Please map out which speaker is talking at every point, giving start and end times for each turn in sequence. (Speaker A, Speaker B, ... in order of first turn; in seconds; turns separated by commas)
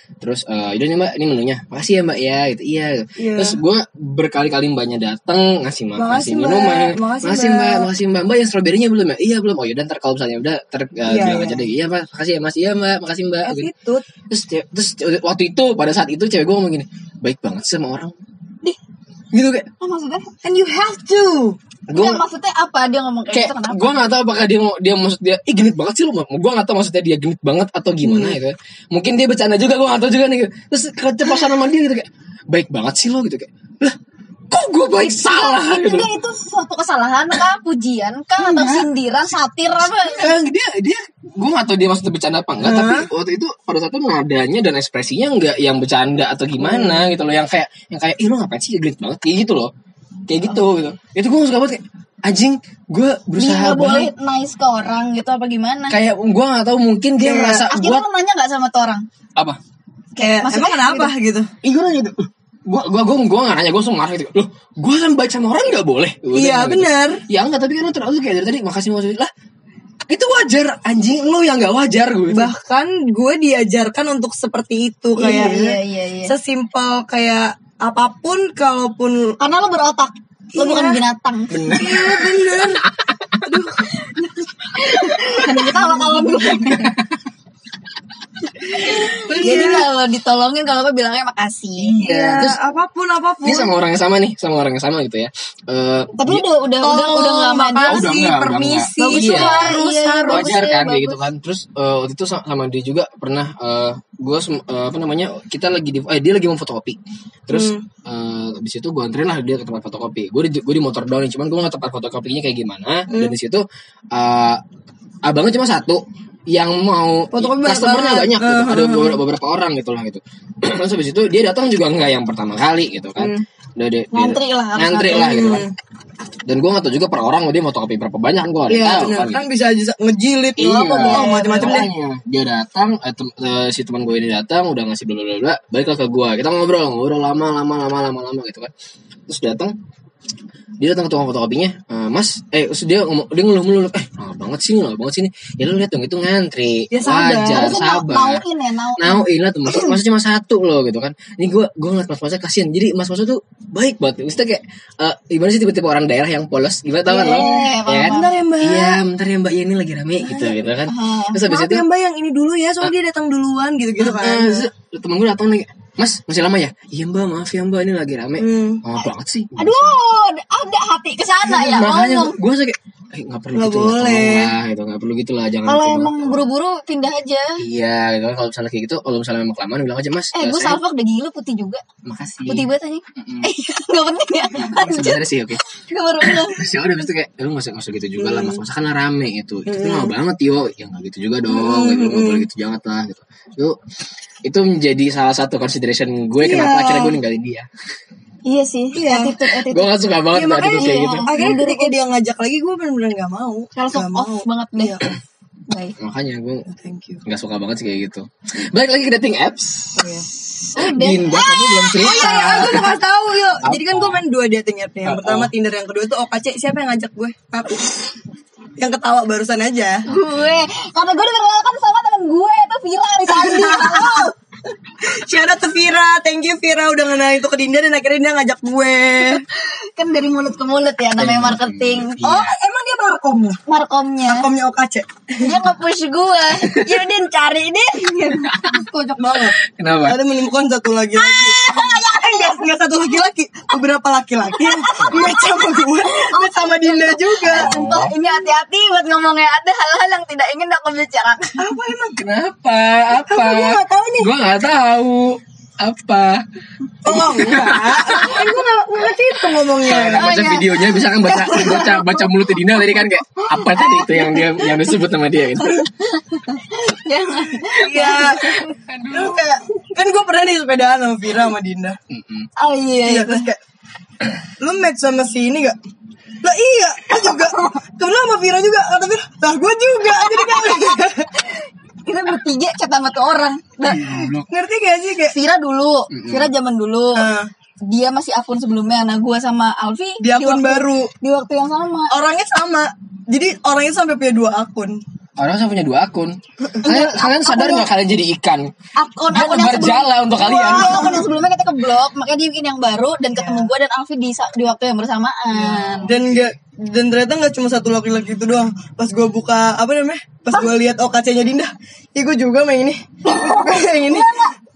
Speaker A: 0.2-13.7, Speaker B: 3.2-3.6, Speaker B: 6.0-7.9, Speaker B: 11.1-11.7, Speaker B: 13.4-14.1, Speaker A: 14.3-18.1, Speaker A: 19.3-19.7, Speaker C: 19.8-20.3, Speaker B: 20.4-21.6, Speaker A: 21.9-22.2, Speaker C: 21.9-24.0, Speaker A: 23.3-34.0, Speaker B: 28.0-28.4, Speaker A: 34.5-36.1, Speaker C: 35.3-40.4, Speaker A: 38.4-38.9, Speaker A: 39.8-49.7, Speaker B: 42.6-43.1, Speaker B: 46.6-47.1, Speaker A: 50.3-54.1, Speaker C: 53.4-56.0, Speaker A: 55.9-58.0, Speaker B: 57.2-57.7, Speaker C: 57.7-59.0, Speaker C: 60.2-61.1, Speaker B: 60.2-61.5, Speaker A: 61.6-69.3, Speaker B: 66.3-67.2, Speaker A: 70.1-72.5, Speaker B: 72.3-79.4, Speaker C: 75.2-76.3, Speaker C: 79.4-81.9, Speaker B: 80.6-81.0, Speaker A: 81.5-83.5, Speaker B: 81.8-82.8, Speaker B: 83.5-83.9, Speaker C: 84.0-87.0, Speaker B: 85.5-86.1, Speaker A: 86.5-87.0, Speaker C: 88.7-92.0, Speaker B: 89.1-89.9, Speaker A: 89.3-89.8, Speaker A: 91.8-92.6, Speaker B: 92.0-93.7, Speaker A: 93.5-96.5, Speaker C: 96.1-98.1, Speaker B: 96.8-100.7, Speaker A: 97.9-114.6, Speaker C: 99.0-101.2, Speaker B: 107.5-107.8, Speaker B: 113.1-113.4, Speaker A: 115.2-125.7, Speaker B: 117.3-119.2, Speaker B: 123.2-123.4, Speaker C: 124.1-125.5, Speaker B: 125.1-125.7, Speaker A: 126.5-129.5, Speaker B: 128.7-131.9, Speaker A: 130.6-138.7, Speaker C: 131.0-131.9, Speaker A: 139.3-139.8, Speaker A: 140.8-148.4, Speaker B: 146.9-147.8, Speaker C: 147.4-149.9, Speaker A: 149.0-161.9, Speaker C: 157.1-158.3, Speaker B: 157.1-159.0, Speaker C: 160.9-161.4, Speaker B: 161.4-164.7, Speaker A: 164.0-169.9, Speaker B: 168.4-168.8, Speaker C: 169.6-172.4, Speaker A: 171.5-176.4, Speaker B: 173.6-174.6, Speaker C: 175.7-177.6, Speaker A: 177.6-180.8, Speaker C: 180.3-181.8, Speaker A: 182.1-183.5, Speaker C: 182.5-186.6, Speaker A: 184.6-185.6, Speaker A: 186.2-193.8, Speaker B: 188.2-188.6, Speaker B: 189.7-190.1, Speaker B: 191.5-192.5, Speaker A: 194.4-197.7, Speaker B: 196.4-197.2, Speaker C: 198.5-199.9, Speaker B: 198.9-199.3, Speaker A: 199.7-201.6, Speaker B: 200.3-205.1, Speaker C: 200.6-202.0, Speaker C: 203.8-205.0, Speaker C: 205.7-206.0, Speaker A: 206.0-206.7, Speaker B: 206.7-207.2, Speaker A: 207.2-213.0, Speaker B: 210.0-210.3, Speaker C: 210.7-212.8, Speaker B: 212.0-217.9, Speaker A: 213.6-214.2, Speaker A: 215.1-215.5, Speaker B: 218.8-220.1, Speaker C: 220.1-224.3, Speaker A: 220.1-220.6, Speaker B: 223.3-224.3, Speaker B: 225.0-229.4, Speaker C: 229.6-232.2, Speaker A: 231.2-232.5, Speaker B: 232.2-233.6, Speaker C: 233.7-234.5, Speaker B: 234.2-235.6, Speaker C: 235.4-238.5, Speaker A: 236.7-237.0, Speaker A: 238.5-238.8, Speaker B: 238.5-247.7, Speaker A: 239.7-240.2, Speaker C: 241.2-242.7, Speaker C: 244.5-251.7, Speaker A: 245.0-245.3, Speaker A: 247.5-248.1, Speaker B: 251.6-252.2, Speaker A: 252.2-256.4, Speaker B: 253.2-254.3, Speaker A: 257.1-258.6, Speaker B: 257.1-260.6, Speaker A: 259.8-265.9, Speaker C: 260.1-262.2, Speaker B: 261.4-262.0, Speaker C: 263.7-264.8, Speaker C: 265.6-268.8, Speaker B: 267.7-272.0, Speaker A: 268.7-269.4, Speaker A: 272.1-272.5, Speaker C: 272.6-273.4, Speaker B: 273.1-273.6, Speaker B: 274.6-275.8, Speaker B: 276.4-281.3, Speaker C: 280.3-284.3, Speaker A: 283.9-284.5, Speaker B: 284.1-285.3, Speaker C: 285.3-287.3, Speaker A: 286.1-286.5, Speaker B: 287.1-287.5, Speaker C: 287.9-292.1, Speaker B: 290.2-291.1, Speaker B: 292.1-295.0, Speaker A: 295.4-298.7, Speaker B: 296.6-296.9, Speaker C: 296.8-297.9, Speaker C: 299.0-306.2, Speaker A: 299.3-301.2, Speaker B: 300.7-301.2, Speaker B: 303.3-303.7, Speaker B: 305.5-314.4, Speaker C: 313.2-314.5